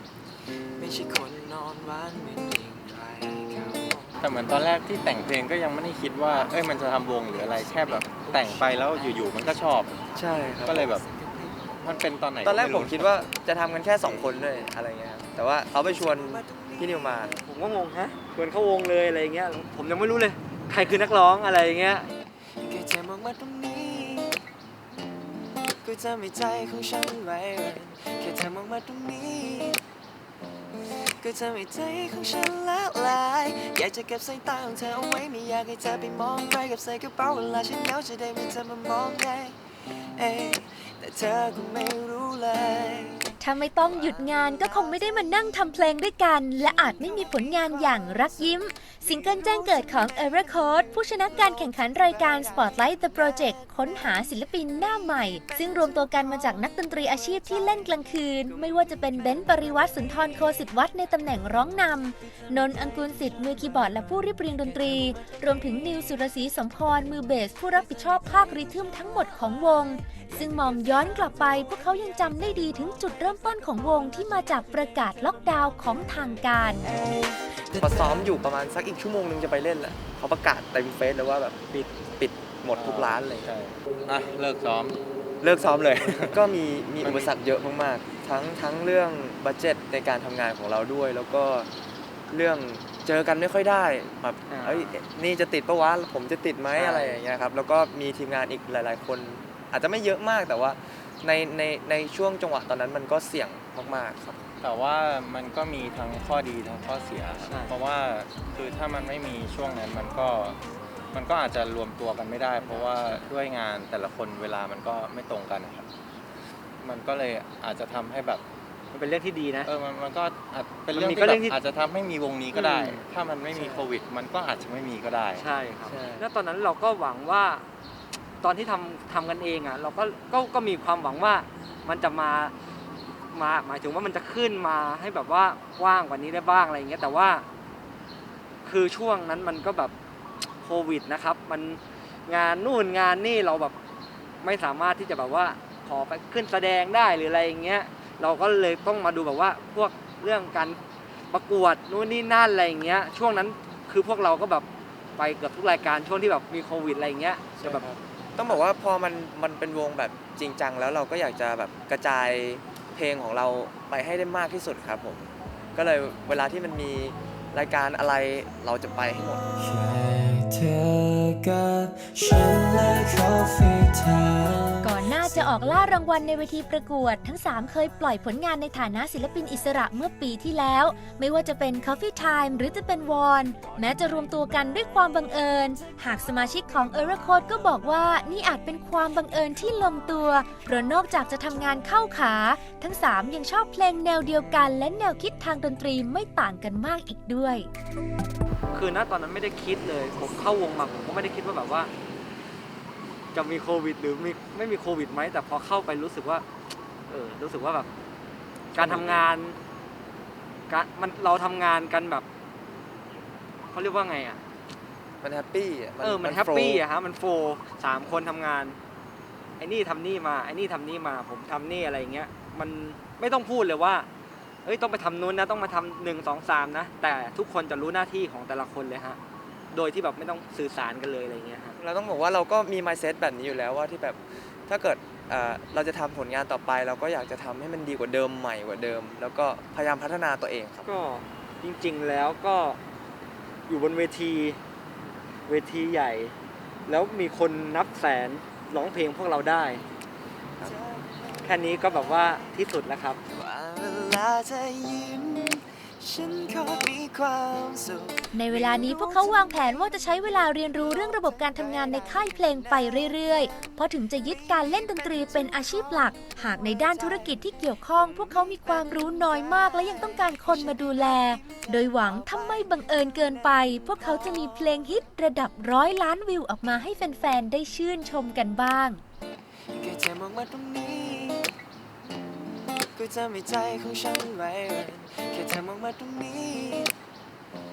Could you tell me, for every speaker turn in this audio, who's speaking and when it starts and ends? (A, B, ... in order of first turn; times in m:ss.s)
0:00.7-0:04.2 A
0:04.2-0:10.0 B
0:06.2-0:11.8 A
0:10.1-0:10.8 C
0:10.6-0:11.0 B
0:11.8-0:13.1 B
0:12.4-0:17.4 C
0:14.0-0:14.7 A
0:15.8-0:17.4 A
0:17.4-0:22.1 D
0:22.6-0:24.4 A
0:25.8-0:29.8 A
0:31.0-0:45.6 A
0:43.4-1:16.9 E
0:46.6-0:53.7 A
0:58.5-1:00.4 A
1:02.5-1:03.3 A
1:05.1-1:05.3 A
1:10.3-1:10.9 A
1:16.8-1:18.3 A
1:17.8-1:21.6 C
1:22.2-1:23.5 C
1:22.7-1:25.0 B
1:25.4-1:31.7 C
1:26.0-1:26.4 B
1:27.0-1:27.3 B
1:32.3-1:44.4 C
1:34.5-1:35.0 D
1:36.7-1:37.2 D
1:44.6-1:50.6 B
1:47.4-1:47.8 D
1:51.1-1:55.9 B
1:52.6-1:53.2 D
1:56.8-1:58.4 B
1:58.9-1:59.7 D
1:59.6-2:05.5 B
2:00.9-2:01.6 D
2:02.5-2:03.0 D
2:03.5-2:03.9 C
2:05.3-2:07.6 D
2:05.9-2:06.3 C
2:08.4-2:12.5 D
2:13.3-2:17.4 D
2:18.6-2:19.9 D
2:20.6-2:23.7 D
2:24.4-2:30.8 D
2:31.3-2:34.6 D
2:35.2-2:37.9 D
2:37.6-2:49.4 C
2:49.6-2:55.5 A
2:54.8-3:17.7 E
3:18.7-3:21.9 D
3:23.3-3:26.4 D
3:27.1-3:27.9 D
3:28.7-3:29.3 C
3:28.7-3:29.6 D
3:30.7-3:32.2 D
3:33.7-3:34.4 D
3:35.2-3:36.8 C
3:36.0-3:38.8 D
3:39.6-3:44.1 D
3:44.6-3:49.2 D
3:49.7-3:51.8 D
3:51.8-4:00.9 C
4:00.8-4:02.8 D
4:03.7-4:04.6 D
4:05.5-4:06.3 D
4:06.9-4:09.8 D
4:10.6-4:12.6 A
4:11.4-4:13.2 D
4:13.3-4:23.4 A
4:18.3-4:39.0 E
4:24.3-4:32.7 A
4:33.6-4:34.7 A
4:39.7-4:41.5 A
4:42.9-4:46.9 A